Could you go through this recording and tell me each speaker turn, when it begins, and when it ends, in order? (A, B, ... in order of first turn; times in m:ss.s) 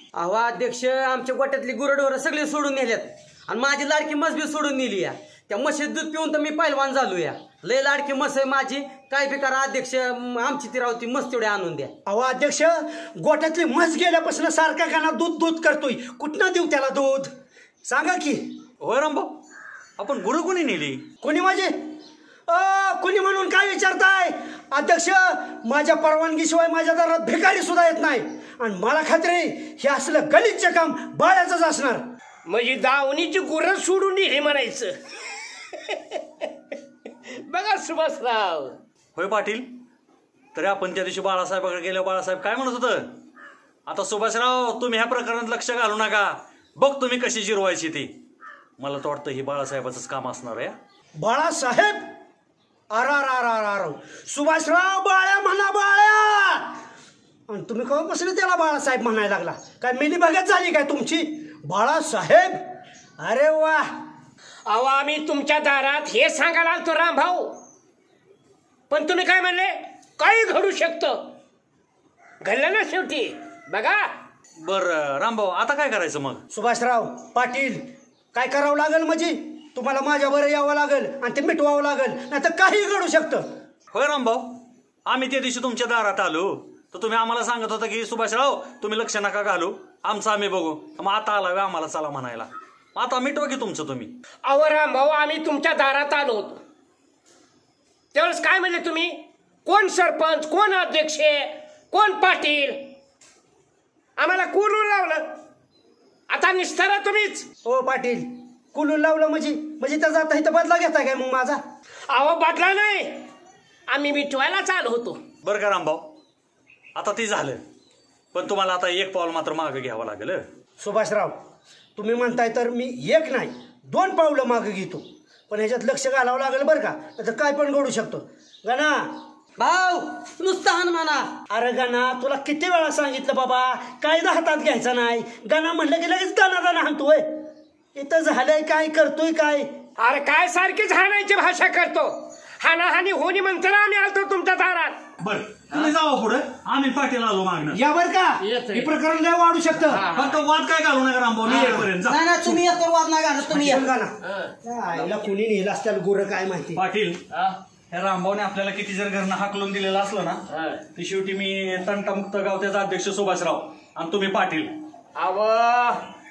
0:00.1-0:11.9 A
0:12.1-0:17.3 B
0:17.8-0:18.6 B
0:18.8-0:19.4 C
0:20.0-0:21.0 C
0:21.2-0:21.9 B
0:22.5-0:32.0 B
0:32.5-0:35.0 D
0:37.4-0:38.8 D
0:39.2-0:39.7 C
0:40.6-0:43.1 C
0:43.9-0:48.1 C
0:48.8-0:50.8 C
0:51.2-0:52.1 B
0:52.9-0:56.8 B
0:57.5-1:02.6 B
1:03.2-1:03.9 B
1:04.7-1:07.6 D
1:08.9-1:11.3 D
1:12.4-1:14.1 D
1:14.6-1:16.4 C
1:16.5-1:23.4 B
1:23.9-1:34.1 C
1:34.4-1:36.6 D
1:38.1-1:42.9 D
1:44.2-1:45.4 D
1:46.3-1:47.5 D
1:47.6-1:51.6 B
1:52.1-1:53.3 D
1:53.9-1:55.2 D
1:55.4-1:56.1 C
1:57.0-1:57.6 C
1:58.3-2:00.4 C
2:00.8-2:01.4 B
2:02.0-2:09.2 B
2:09.6-2:11.3 A
2:11.5-2:19.7 B
2:20.0-2:25.0 D
2:25.2-2:27.8 C
2:27.7-2:30.1 B
2:28.4-2:28.9 D
2:29.9-2:30.4 D
2:30.1-2:32.5 C
2:31.4-2:33.9 A
2:33.5-2:36.8 B
2:34.3-2:34.5 D
2:36.8-2:37.2 C
2:37.3-2:37.6 D
2:37.9-2:40.4 C
2:40.5-2:40.8 D
2:41.0-2:44.7 C
2:45.2-2:46.1 D